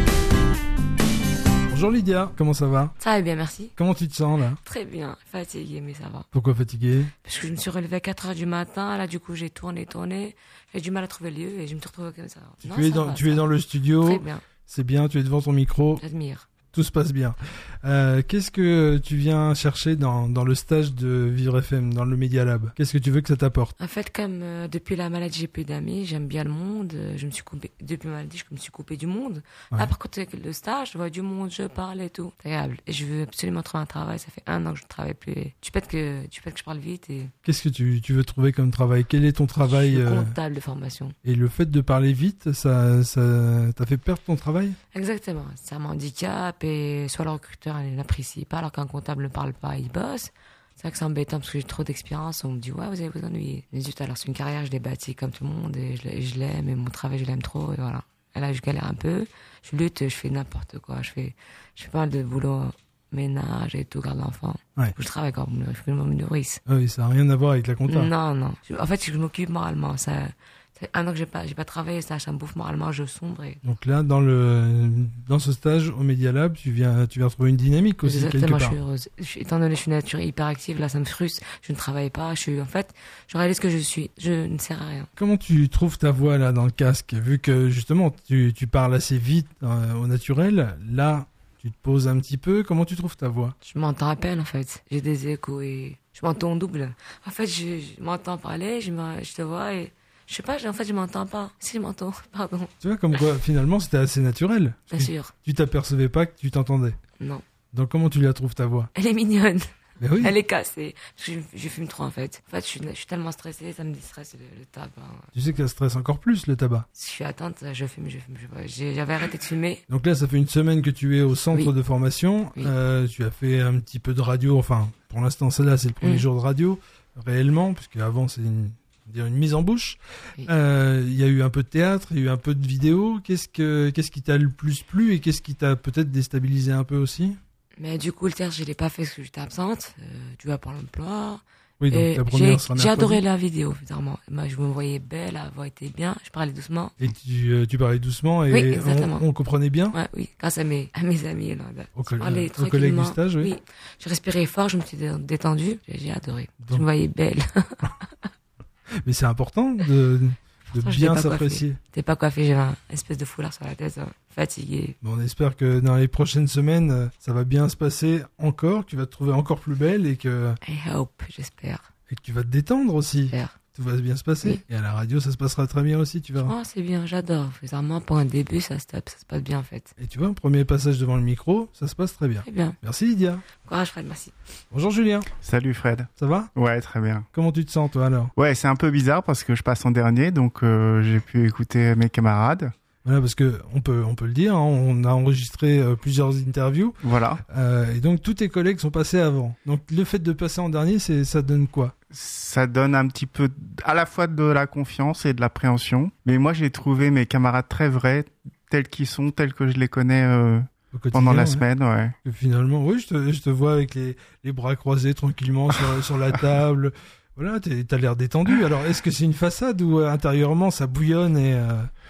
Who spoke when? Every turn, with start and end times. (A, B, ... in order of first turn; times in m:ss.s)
0:01.7-0:02.9 A
0:03.0-0:03.7 B
0:03.8-0:04.6 A
0:04.6-0:06.3 B
0:06.3-0:07.1 A
0:07.2-0:14.4 B
0:12.6-0:16.0 A
0:16.0-0:16.5 B
0:16.7-0:23.7 A
0:23.8-0:37.3 B
0:37.4-0:40.3 A
0:39.7-0:41.1 B
0:41.2-0:44.8 A
0:44.9-1:06.6 B
1:06.6-1:08.1 A
1:07.9-1:13.6 B
1:13.6-1:18.8 A
1:18.0-1:25.1 B
1:25.2-1:33.5 A
1:33.6-1:42.7 B
1:42.8-1:47.0 A
1:44.9-1:45.3 B
1:47.7-1:48.9 A
1:49.0-1:49.7 B
1:50.0-1:50.4 A
1:50.2-1:55.2 B
1:55.3-1:56.9 A
1:56.9-1:59.8 B
1:59.9-2:17.4 A
2:06.0-2:06.2 B
2:17.8-2:27.0 B
2:21.8-2:23.2 A
2:27.0-2:30.0 A
2:28.5-2:29.2 B
2:29.9-2:38.2 B
2:31.9-2:33.5 A
2:39.0-2:41.8 A
2:40.7-2:45.0 B
2:45.0-2:50.6 A
2:50.6-2:51.8 B
2:52.1-2:56.5 A
2:56.4-2:59.9 B
3:00.0-3:03.4 A
3:02.4-3:02.8 B
3:03.6-3:04.3 B
3:04.7-3:05.3 A
3:05.4-3:07.3 C
3:06.2-3:06.5 A
3:07.3-3:08.3 A
3:08.4-3:12.7 C
3:13.0-3:16.9 A
3:17.0-3:17.4 C
3:17.5-3:21.9 A
3:22.1-3:32.1 C
3:30.9-3:31.6 A
3:32.2-3:41.9 A